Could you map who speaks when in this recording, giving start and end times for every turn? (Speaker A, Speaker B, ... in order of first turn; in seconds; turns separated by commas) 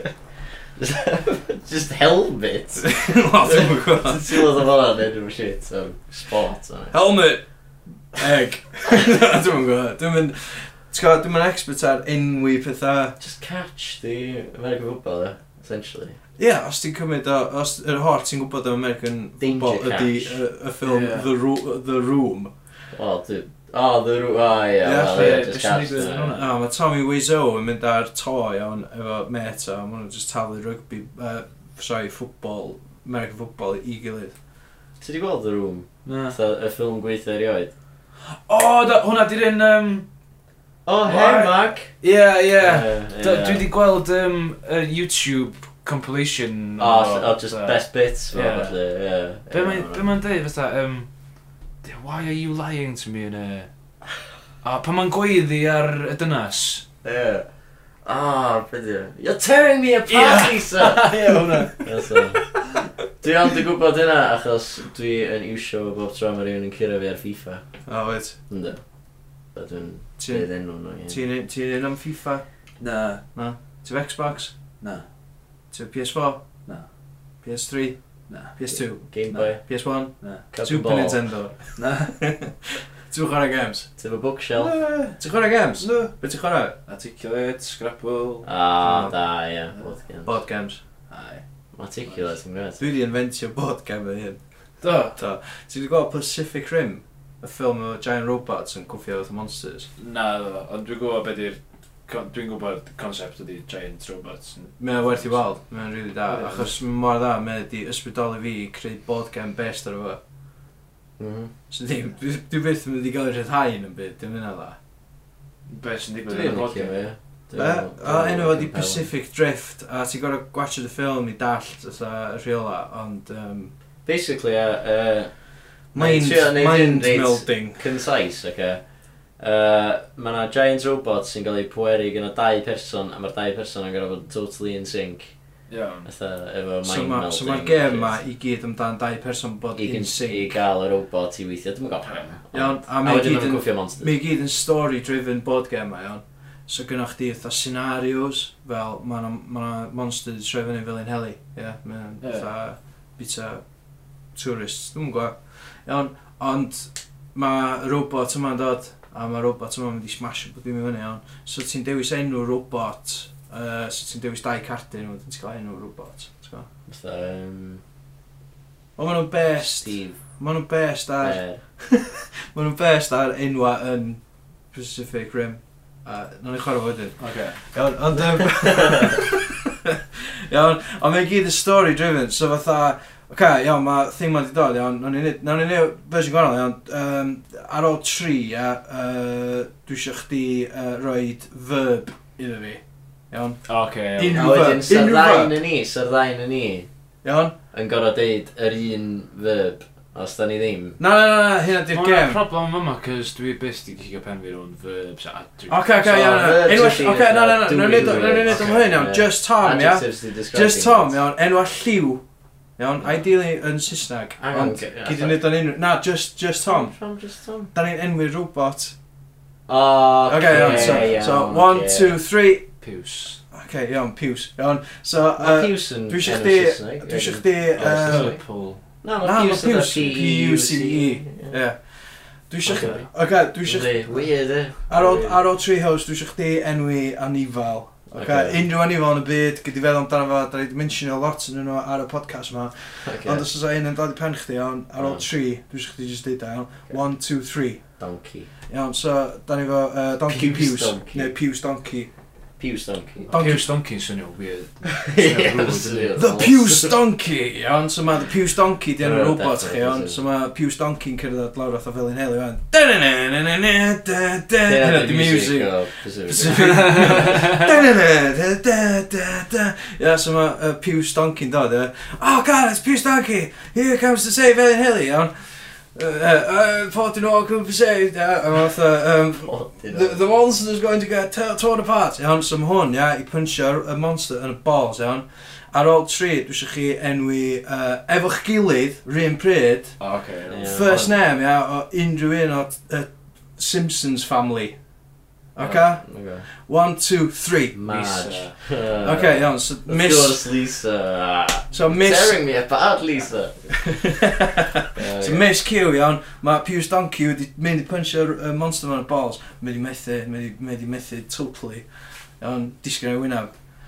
Speaker A: 0.8-7.0, Speaker B: 2.8-4.5, Speaker B: 6.9-7.4, Speaker B: 8.1-13.2, Speaker A: 13.2-16.2, Speaker B: 16.4-22.5, Speaker A: 19.4-20.4, Speaker C: 20.8-21.3, Speaker A: 22.9-26.4, Speaker B: 24.8-34.3, Speaker C: 25.1-26.5, Speaker A: 35.0-37.7, Speaker C: 36.0-36.4, Speaker C: 38.2-40.1, Speaker A: 40.9-41.9, Speaker C: 41.0-47.8, Speaker A: 42.6-43.6, Speaker A: 46.8-50.1, Speaker C: 48.3-48.8, Speaker C: 49.5-51.1, Speaker C: 51.8-53.7, Speaker C: 54.6-56.8, Speaker A: 57.0-57.5, Speaker A: 58.0-61.2, Speaker C: 60.1-61.9, Speaker A: 61.8-62.5, Speaker A: 63.2-67.6, Speaker B: 67.9-68.4, Speaker A: 68.5-68.8, Speaker A: 69.5-71.2, Speaker B: 70.2-72.5, Speaker C: 72.8-73.2, Speaker B: 73.3-74.5, Speaker B: 75.7-76.4, Speaker B: 77.4-83.9, Speaker C: 78.3-78.6, Speaker A: 78.7-79.6, Speaker C: 79.3-79.6, Speaker C: 80.2-80.5, Speaker A: 80.5-81.2, Speaker C: 81.8-82.2, Speaker A: 84.0-84.7, Speaker C: 84.6-85.2, Speaker B: 85.2-86.8, Speaker C: 85.8-86.2, Speaker C: 86.9-88.5, Speaker A: 88.4-90.4, Speaker B: 88.8-89.2, Speaker B: 90.3-90.8, Speaker C: 91.1-91.4, Speaker A: 91.7-92.8, Speaker C: 92.0-92.3, Speaker B: 92.8-94.4, Speaker C: 94.8-95.2, Speaker B: 94.9-99.9, Speaker C: 100.0-105.6, Speaker B: 104.8-110.2, Speaker C: 106.3-106.7, Speaker A: 111.2-111.5, Speaker B: 111.7-114.8, Speaker C: 115.7-117.0, Speaker A: 116.3-119.1, Speaker B: 117.5-123.7, Speaker A: 124.1-125.4, Speaker B: 125.9-127.9, Speaker A: 125.9-128.8, Speaker A: 129.4-135.3, Speaker C: 135.7-136.1, Speaker A: 136.1-138.2, Speaker B: 136.8-140.6, Speaker A: 139.8-144.1, Speaker C: 142.0-142.4, Speaker B: 142.5-153.6, Speaker C: 152.2-152.5, Speaker B: 154.3-166.7, Speaker A: 166.9-167.8, Speaker B: 169.0-174.2, Speaker A: 169.6-170.2, Speaker A: 171.2-171.6, Speaker B: 174.7-195.6, Speaker C: 177.2-177.6, Speaker A: 178.6-179.1, Speaker C: 193.7-194.5, Speaker A: 194.3-196.9, Speaker B: 197.2-197.6, Speaker A: 197.7-201.0, Speaker B: 201.0-202.4, Speaker C: 201.9-205.9, Speaker B: 205.7-212.2, Speaker A: 206.0-211.2, Speaker C: 207.9-208.8, Speaker B: 212.8-216.9, Speaker A: 214.4-215.4, Speaker A: 216.7-217.7, Speaker B: 217.7-218.9, Speaker A: 219.7-222.2, Speaker B: 220.3-222.7, Speaker C: 220.5-221.3, Speaker C: 222.8-223.4, Speaker B: 223.5-228.4, Speaker A: 225.4-228.4, Speaker C: 227.8-228.8, Speaker A: 229.0-231.6, Speaker B: 229.2-234.3, Speaker A: 232.7-233.1, Speaker C: 232.7-233.1, Speaker A: 233.6-235.4, Speaker B: 234.9-247.9, Speaker A: 238.1-238.6, Speaker A: 243.0-243.5, Speaker A: 245.0-245.2, Speaker A: 248.0-248.5, Speaker B: 248.7-252.1, Speaker A: 250.3-251.3, Speaker A: 252.6-253.3, Speaker B: 253.3-253.7, Speaker C: 253.3-256.1, Speaker A: 255.0-257.0, Speaker B: 256.2-290.0, Speaker A: 259.0-260.2, Speaker A: 264.6-267.2, Speaker C: 266.4-267.7, Speaker A: 279.4-280.2, Speaker C: 290.0-290.7, Speaker A: 290.5-291.1, Speaker B: 290.7-294.8, Speaker B: 295.6-298.3, Speaker A: 295.6-296.5, Speaker A: 297.7-303.7, Speaker C: 297.9-298.5, Speaker B: 299.0-300.4, Speaker B: 301.7-302.4, Speaker B: 303.7-311.9, Speaker A: 304.9-305.4, Speaker B: 312.4-313.5